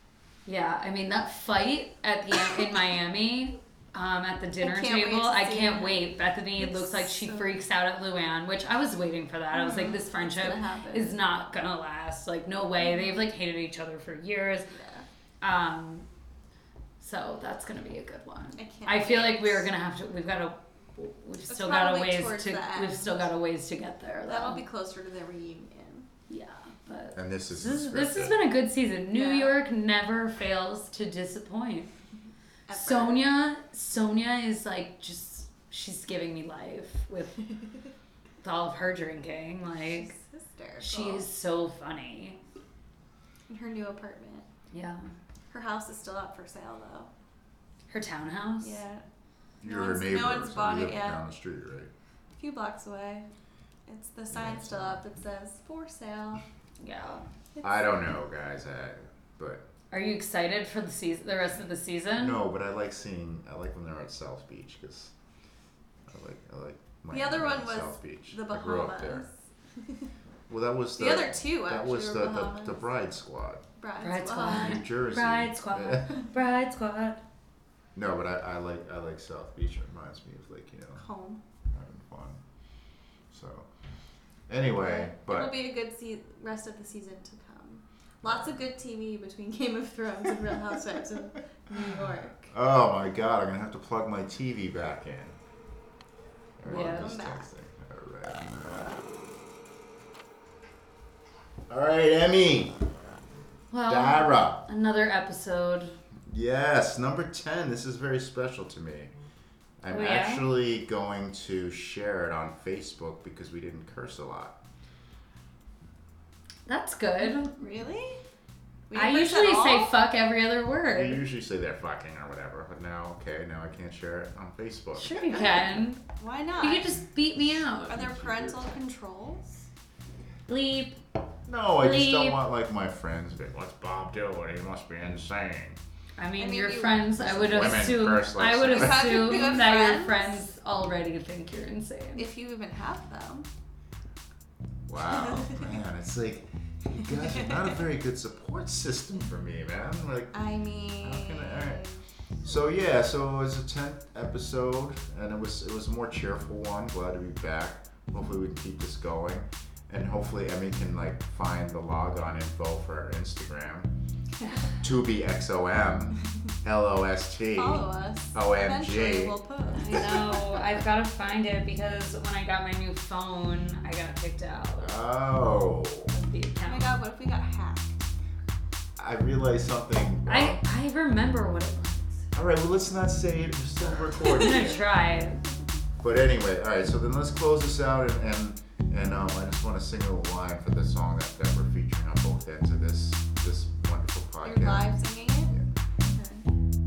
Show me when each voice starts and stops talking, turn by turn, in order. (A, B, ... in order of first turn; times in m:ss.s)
0:00.4-0:14.7 A
0:04.6-0:07.6 B
0:09.5-0:11.2 B
0:14.7-0:15.1 B
0:15.4-0:16.0 A
0:17.0-0:24.6 A
0:18.6-0:19.7 B
0:21.5-0:23.2 B
0:24.3-0:26.1 B
0:26.3-0:31.9 A
0:27.1-0:28.4 C
0:29.1-0:29.5 B
0:32.7-0:33.3 B
0:32.7-0:37.5 A
0:38.4-0:40.1 A
0:39.8-0:41.2 B
0:40.8-0:42.4 A
0:43.5-0:44.5 B
0:44.7-0:45.0 A
0:45.5-0:47.1 B
0:47.9-0:48.8 A
0:48.6-0:49.0 B
0:49.6-0:51.9 C
0:49.6-0:51.2 B
0:52.3-0:53.3 B
0:53.9-0:56.4 B
0:54.3-0:55.0 C
0:56.8-0:57.2 A
0:57.5-0:58.0 B
0:57.6-0:59.6 C
0:59.9-1:02.4 A
1:02.2-1:05.1 C
1:06.1-1:09.3 C
1:07.1-1:09.3 B
1:10.5-1:13.6 C
1:11.0-1:12.8 B
1:13.8-1:14.8 B
1:14.0-1:17.2 A
1:14.4-1:16.1 C
1:17.9-1:21.0 C
1:21.0-1:21.4 B
1:21.7-1:22.4 C
1:23.3-1:23.7 C
1:24.5-1:25.5 C
1:24.8-1:32.5 B
1:28.2-1:28.6 C
1:32.5-1:35.4 C
1:36.6-1:38.9 C
1:36.6-1:37.1 A
1:36.7-1:37.5 B
1:41.7-1:42.8 C
1:43.7-1:46.0 A
1:43.8-1:44.6 C
1:46.3-1:49.1 C
1:49.8-1:54.6 C
1:49.9-1:50.5 A
1:56.6-1:57.5 A
1:57.2-1:58.2 B
1:58.9-2:00.0 B
1:58.9-2:01.2 A
2:00.9-2:05.2 C
2:05.0-2:06.0 A
2:05.3-2:07.0 B
2:06.6-2:08.0 A
2:07.9-2:09.7 B
2:07.9-2:08.7 C
2:10.5-2:11.0 A
2:11.5-2:15.8 C
2:11.8-2:12.4 A
2:16.2-2:22.3 A
2:16.4-2:17.9 B
2:17.2-2:19.5 C
2:18.6-2:20.4 B
2:22.2-2:23.5 B
2:24.9-2:30.3 C
2:25.1-2:25.6 B
2:27.1-2:27.7 B
2:30.3-2:32.0 B
2:31.0-2:31.8 C
2:32.4-2:43.9 C
2:44.8-2:49.4 C
2:47.5-2:49.9 B
2:49.7-2:54.9 A
2:54.8-2:56.1 C
2:56.1-2:57.0 A
2:56.6-2:58.0 B
2:59.0-3:00.6 C
3:00.2-3:02.3 A
3:02.3-3:04.8 C
3:04.2-3:05.4 A
3:06.0-3:14.9 C
3:14.4-3:16.4 B
3:15.5-3:15.7 C